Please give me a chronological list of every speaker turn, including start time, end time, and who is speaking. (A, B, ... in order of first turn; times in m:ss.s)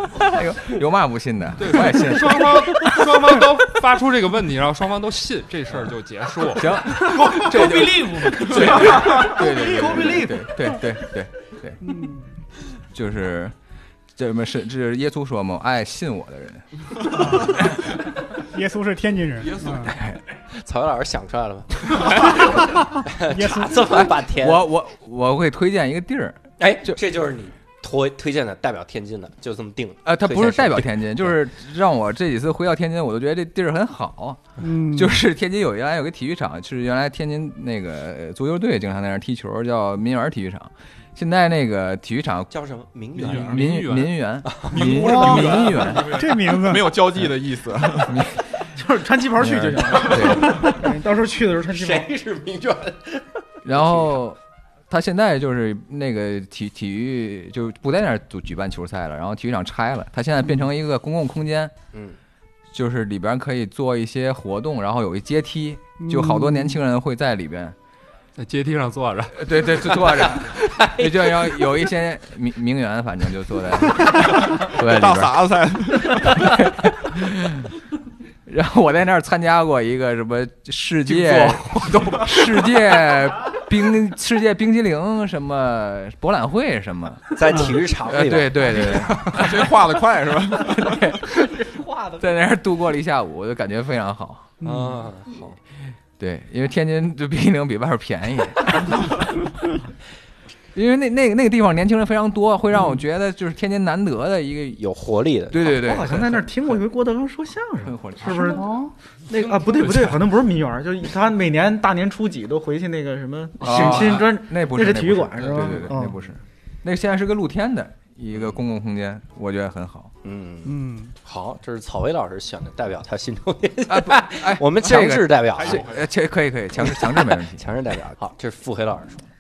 0:00.1-0:02.9 A
0:01.6-0:06.8 B
0:06.4-0:11.9 A
0:07.0-0:10.5 C
0:11.8-0:12.2 D
0:12.9-0:13.6 A
0:14.2-0:16.6 A
0:17.1-0:17.8 D
0:18.3-0:19.9 D
0:19.6-0:20.2 A
0:20.5-0:24.7 E
0:23.2-0:24.1 D
0:23.9-0:27.0 A
0:26.6-0:31.4 E
0:30.0-0:42.5 A
0:34.6-0:35.2 D
0:42.5-0:43.6 E
0:43.2-0:44.2 B
0:43.2-0:43.6 F
0:43.3-0:46.1 A
0:44.4-0:44.8 E
0:44.8-0:48.2 F
0:44.9-0:47.0 D
0:45.3-0:45.9 B
0:48.0-0:48.4 A
0:48.8-0:52.1 C
0:49.4-0:50.8 A
0:51.7-0:54.1 E
0:53.6-0:54.4 A
0:54.9-1:01.7 A
1:01.9-1:02.2 E
1:02.7-1:07.8 A
1:06.0-1:06.8 D
1:08.4-1:10.5 B
1:09.4-1:15.4 A
1:10.8-1:11.1 E
1:14.4-1:16.5 F
1:16.2-1:17.7 A
1:18.5-1:29.7 A
1:21.1-1:22.1 F
1:27.3-1:29.3 E
1:29.3-1:31.0 F
1:30.6-1:31.5 A
1:32.2-1:34.5 A
1:34.6-1:35.6 E
1:34.6-1:35.1 D
1:36.2-1:39.2 A
1:40.7-1:44.8 A
1:44.8-1:45.7 E
1:45.5-1:46.8 A
1:45.7-1:56.3 C
1:47.8-1:48.7 A
1:48.6-1:48.9 D
1:49.3-1:50.3 B
1:53.6-2:00.1 A
1:58.3-1:58.6 E
2:00.2-2:05.9 E
2:00.6-2:01.1 D
2:03.9-2:07.7 A
2:05.6-2:06.1 F
2:06.8-2:09.3 E